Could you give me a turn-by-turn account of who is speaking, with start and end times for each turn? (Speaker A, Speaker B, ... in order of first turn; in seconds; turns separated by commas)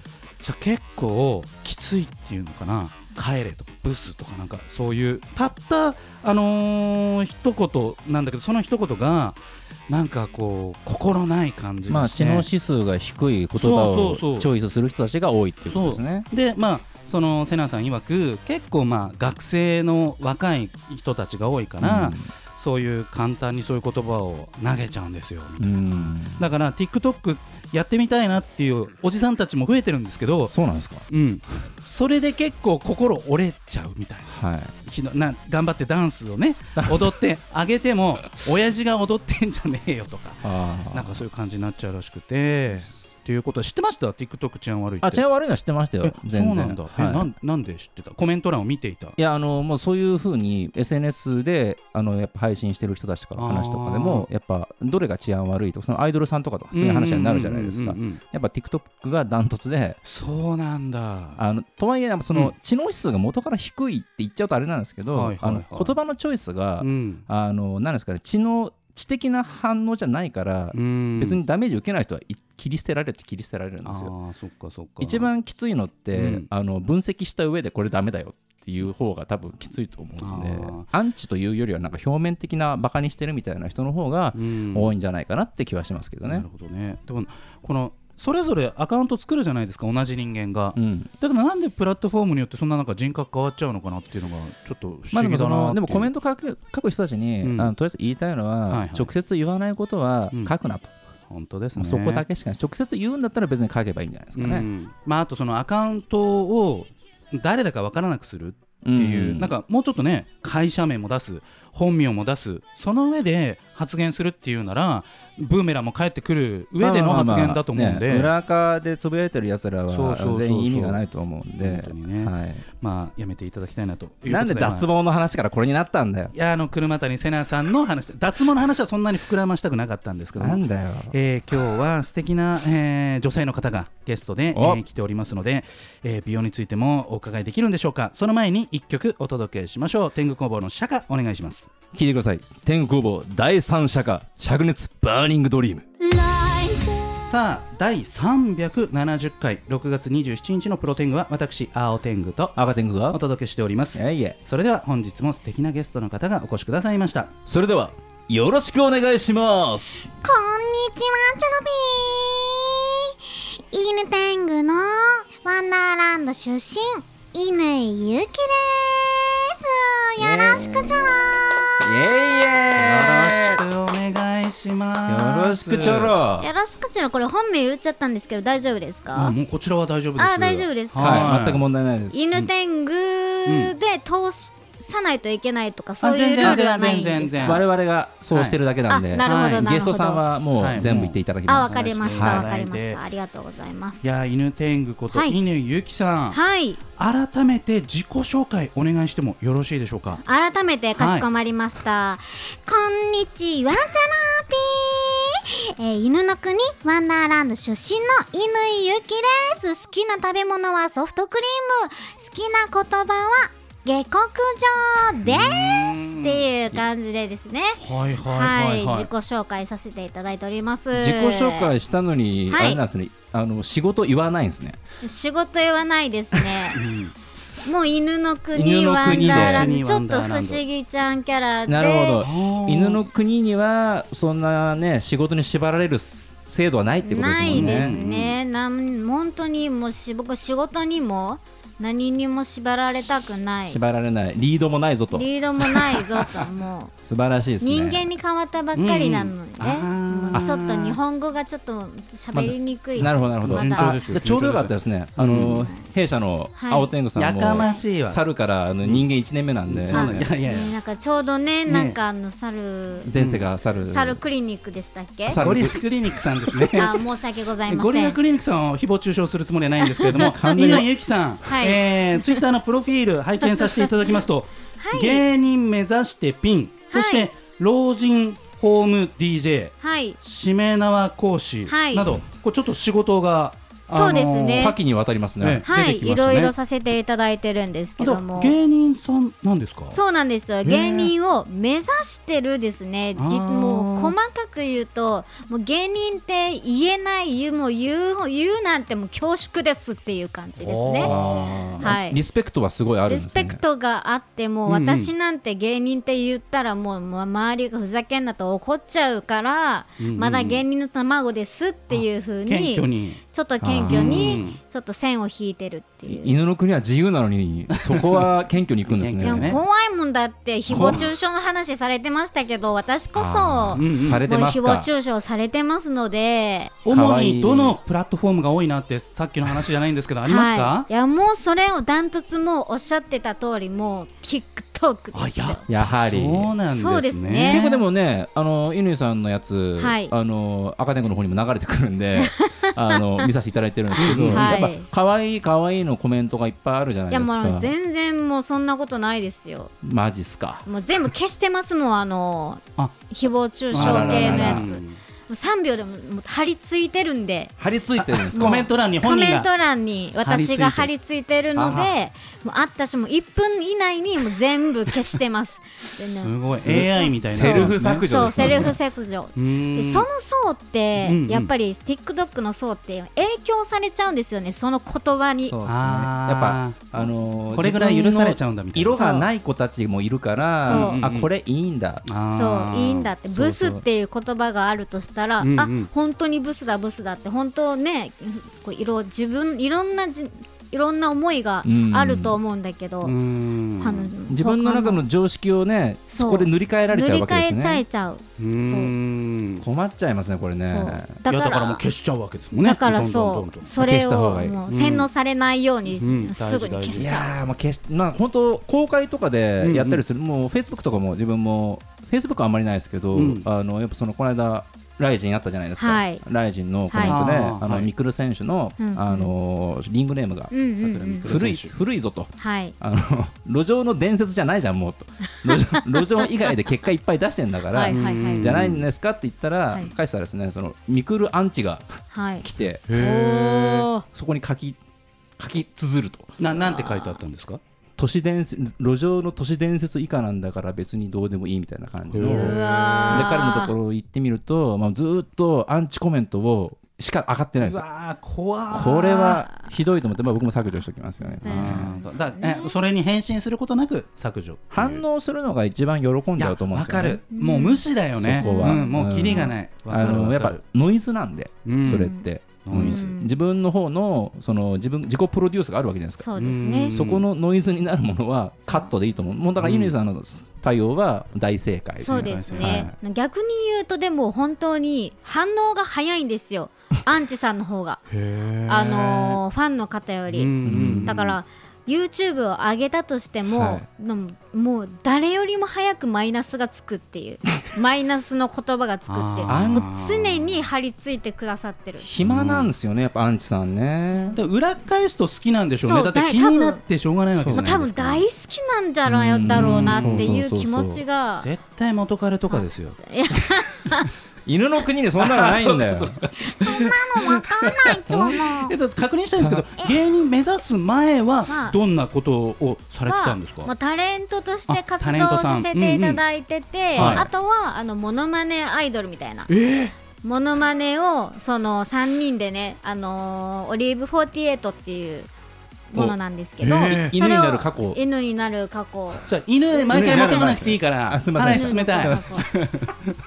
Speaker A: 0.4-12.5, Speaker B: 11.9-16.3, Speaker A: 13.6-14.5, Speaker A: 15.7-30.6, Speaker B: 21.8-22.3, Speaker B: 25.6-26.4, Speaker B: 30.5-31.1, Speaker A: 31.1-45.2, Speaker B: 34.3-34.7, Speaker B: 36.8-37.1, Speaker B: 40.4-41.2, Speaker B: 45.0-47.3, Speaker A: 46.0-49.2, Speaker B: 49.2-60.0, Speaker A: 53.4-54.3, Speaker A: 56.7-58.2, Speaker A: 60.0-61.4, Speaker B: 61.4-74.1, Speaker A: 65.1-66.0, Speaker A: 66.8-67.3, Speaker A: 70.7-71.4, Speaker A: 73.8-75.3, Speaker B: 75.0-86.5, Speaker A: 76.1-76.5, Speaker A: 80.2-80.9, Speaker A: 84.3-84.9, Speaker A: 86.3-96.1, Speaker B: 90.8-91.1, Speaker B: 95.1-100.9, Speaker A: 97.4-97.7, Speaker A: 98.7-99.1, Speaker A: 101.3-102.3, Speaker B: 101.8-104.7, Speaker A: 104.4-118.3, Speaker B: 108.8-109.5, Speaker B: 116.8-122.6, Speaker A: 119.9-121.0, Speaker A: 121.6-124.9, Speaker B: 124.3-126.3, Speaker A: 126.3-141.7, Speaker B: 130.4-131.2, Speaker B: 134.5-134.8, Speaker B: 141.9-145.9, Speaker C: 146.0-147.2, Speaker A: 147.2-152.6, Speaker B: 152.6-153.2, Speaker A: 153.1-157.3, Speaker B: 153.9-154.4, Speaker B: 157.5-160.1, Speaker C: 160.2-172.4, Speaker B: 170.2-171.2, Speaker B: 171.8-173.6, Speaker A: 172.7-176.2, Speaker B: 175.1-176.5, Speaker C: 176.4-179.3, Speaker A: 179.1-181.6, Speaker C: 180.2-181.4, Speaker B: 181.0-182.3, Speaker C: 182.1-187.6, Speaker A: 183.5-183.7, Speaker A: 186.0-187.7, Speaker B: 187.4-192.5, Speaker A: 188.3-188.6, Speaker C: 188.9-190.2, Speaker A: 189.2-189.7, Speaker A: 190.6-193.0, Speaker C: 191.5-194.1, Speaker A: 194.0-196.4, Speaker C: 195.1-195.4, Speaker C: 196.3-196.8, Speaker A: 197.0-200.2, Speaker C: 200.2-221.7, Speaker A: 201.0-201.3, Speaker A: 215.2-216.5, Speaker A: 217.8-219.1, Speaker B: 220.9-224.8, Speaker C: 222.5-222.8, Speaker C: 225.0-226.8, Speaker A: 226.8-227.1, Speaker C: 227.6-232.3, Speaker B: 228.5-229.7, Speaker A: 229.0-230.6, Speaker B: 231.7-238.0, Speaker A: 232.2-233.0, Speaker C: 237.0-243.8, Speaker A: 237.5-238.4, Speaker B: 243.7-246.1, Speaker C: 245.1-246.9, Speaker B: 247.1-248.1, Speaker C: 247.6-253.9, Speaker A: 248.8-251.0, Speaker B: 252.3-260.3, Speaker A: 253.4-255.7, Speaker C: 256.6-256.9, Speaker A: 257.1-258.2, Speaker C: 257.5-257.8, Speaker A: 258.8-259.1, Speaker A: 259.7-260.8, Speaker C: 259.9-263.1, Speaker A: 261.7-262.0, Speaker B: 263.1-264.2, Speaker A: 263.1-263.5, Speaker C: 263.8-265.4, Speaker B: 265.3-265.8, Speaker A: 265.4-267.0, Speaker C: 266.7-268.2, Speaker A: 267.7-284.8, Speaker C: 269.8-270.9, Speaker B: 270.1-270.9, Speaker C: 271.4-272.4, Speaker C: 273.6-274.2, Speaker C: 274.8-275.2, Speaker C: 276.9-277.3, Speaker C: 279.8-280.2, Speaker C: 281.7-282.1, Speaker C: 283.9-284.8, Speaker B: 284.6-285.6, Speaker A: 285.4-286.5, Speaker C: 285.6-288.6, Speaker A: 288.0-290.0, Speaker C: 289.9-301.1, Speaker A: 290.6-291.1, Speaker A: 293.2-294.1, Speaker A: 300.6-301.9, Speaker B: 301.0-303.6, Speaker C: 301.8-302.2, Speaker C: 303.1-316.4, Speaker A: 304.7-305.1, Speaker A: 310.0-310.6, Speaker A: 311.9-313.2, Speaker B: 313.6-314.4, Speaker A: 313.9-314.6, Speaker B: 316.1-319.6, Speaker A: 317.7-318.3, Speaker A: 318.9-319.6, Speaker C: 319.2-326.8, Speaker B: 320.7-321.1, Speaker A: 320.7-321.1, Speaker B: 323.1-324.9, Speaker A: 323.8-324.2, Speaker A: 326.9-330.9, Speaker B: 326.9-327.8, Speaker C: 330.3-335.6, Speaker A: 335.1-337.8, Speaker B: 335.7-336.5, Speaker C: 336.7-337.6, Speaker B: 337.5-347.7, Speaker C: 339.8-340.1, Speaker C: 342.2-343.3, Speaker C: 343.9-344.9, Speaker A: 344.0-344.5, Speaker C: 347.1-349.7, Speaker B: 349.8-350.7, Speaker C: 350.7-357.5, Speaker A: 353.7-355.0, Speaker B: 353.7-354.7, Speaker B: 357.6-358.7, Speaker A: 358.0-359.5, Speaker C: 358.3-375.6, Speaker A: 360.2-360.9, Speaker A: 361.6-361.9, Speaker A: 366.2-368.8, Speaker B: 366.6-368.8, Speaker A: 369.4-370.1, Speaker A: 371.0-371.5, Speaker B: 375.4-382.1, Speaker A: 375.7-379.0, Speaker C: 378.9-379.3, Speaker C: 380.6-381.0, Speaker A: 380.6-381.3, Speaker A: 382.1-383.2, Speaker C: 382.3-393.1, Speaker B: 383.3-383.8, Speaker A: 385.4-385.9, Speaker B: 391.6-392.4, Speaker A: 393.0-394.1, Speaker C: 393.8-395.1, Speaker B: 394.3-397.8, Speaker C: 396.1-398.9, Speaker A: 398.4-399.6, Speaker B: 399.6-401.1, Speaker C: 400.7-401.8, Speaker A: 401.3-403.7, Speaker C: 402.6-407.3, Speaker B: 403.8-404.6, Speaker A: 404.7-405.1, Speaker A: 405.9-407.2, Speaker B: 406.9-420.5, Speaker A: 409.6-410.0, Speaker A: 413.1-413.5, Speaker C: 415.8-416.2, Speaker C: 416.9-417.2, Speaker A: 417.0-417.9, Speaker C: 418.8-419.3, Speaker C: 420.5-421.3, Speaker A: 420.8-421.8, Speaker B: 421.2-432.9, Speaker C: 422.4-422.8, Speaker C: 425.3-426.2, Speaker C: 427.7-428.6, Speaker A: 427.9-428.9, Speaker C: 432.1-434.1, Speaker A: 432.9-433.9, Speaker B: 434.0-434.8, Speaker B: 435.4-436.4, Speaker A: 436.4-437.6, Speaker C: 436.6-437.2, Speaker B: 438.0-447.8, Speaker A: 442.1-443.4, Speaker C: 442.2-443.7, Speaker A: 447.6-449.5, Speaker B: 448.7-451.9, Speaker C: 451.2-452.8, Speaker A: 451.4-455.0, Speaker B: 454.7-457.2, Speaker A: 456.4-460.6, Speaker C: 457.3-457.8, Speaker B: 458.2-466.3, Speaker C: 458.4-459.6, Speaker A: 461.6-463.1, Speaker C: 461.9-463.3, Speaker C: 466.2-467.0, Speaker A: 466.4-467.2, Speaker B: 466.9-472.9, Speaker A: 469.6-469.9, Speaker C: 472.0-478.0, Speaker A: 472.1-472.9, Speaker A: 478.1-479.4, Speaker C: 478.7-492.1, Speaker A: 480.3-481.4, Speaker B: 480.6-481.1, Speaker B: 483.5-483.9, Speaker A: 489.1-490.5, Speaker B: 489.5-489.9, Speaker B: 492.0-494.4, Speaker A: 492.2-492.7, Speaker A: 494.4-498.3, Speaker C: 495.8-496.8, Speaker B: 497.4-497.8, Speaker C: 497.5-501.5, Speaker B: 499.1-501.0, Speaker A: 499.5-500.3, Speaker A: 501.4-503.0, Speaker C: 502.5-504.1, Speaker B: 504.5-506.2, Speaker A: 505.2-513.7, Speaker C: 506.4-508.8, Speaker B: 508.1-508.4, Speaker B: 509.4-509.7, Speaker C: 511.5-511.8, Speaker C: 513.1-519.5, Speaker A: 514.7-516.2, Speaker A: 516.9-517.3, Speaker B: 517.0-517.3, Speaker A: 519.5-519.9, Speaker C: 520.2-525.3, Speaker C: 525.9-530.7, Speaker A: 526.6-527.1, Speaker B: 526.8-528.0, Speaker A: 529.3-533.2, Speaker B: 529.9-532.5, Speaker C: 531.5-532.5